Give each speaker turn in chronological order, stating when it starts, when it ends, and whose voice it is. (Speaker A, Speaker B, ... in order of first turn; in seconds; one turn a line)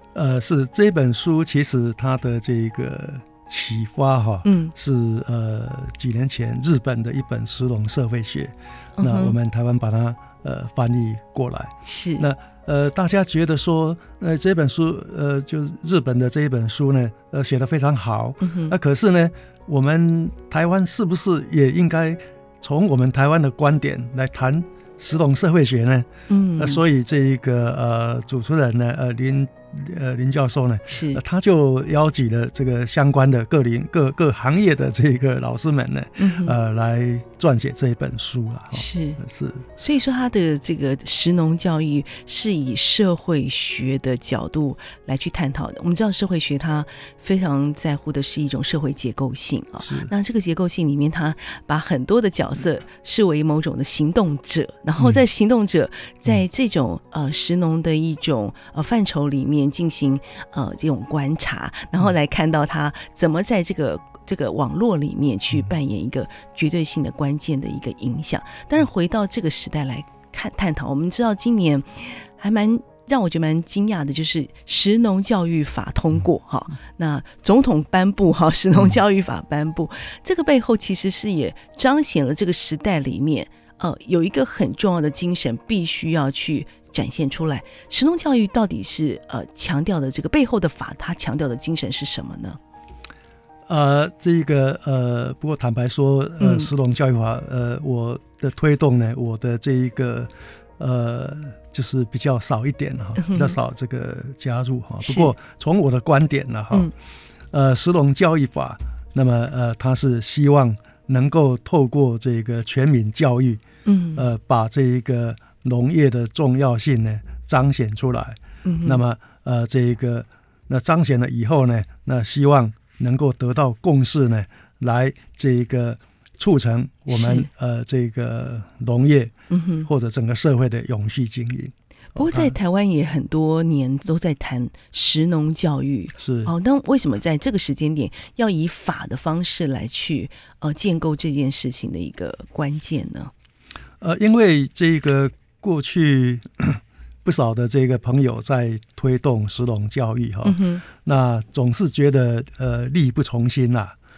Speaker A: 0.1-39.6
Speaker B: 4.4-4.7
Speaker B: 9.0-9.3
Speaker B: 11.8-12.2
Speaker B: 18.4-18.7
Speaker B: 26.3-26.8
Speaker B: 30.9-31.2
Speaker B: 36.2-36.5
Speaker B: 38.7-39.2
Speaker B: 39.8-92.6
Speaker A: 49.8-50.1
Speaker A: 93.7-106.9
Speaker B: 96.4-96.7
Speaker B: 103.2-103.5
Speaker B: 105.0-105.3
Speaker A: 107.5-113.6
Speaker B: 113.8-114.2
Speaker A: 114.2-129.3
Speaker B: 118.6-119.0
Speaker B: 127.1-127.5
Speaker B: 129.5-129.9
Speaker A: 129.8-132.5
Speaker B: 132.1-143.3
Speaker A: 136.2-136.5
Speaker A: 144.0-153.9
Speaker B: 150.4-150.8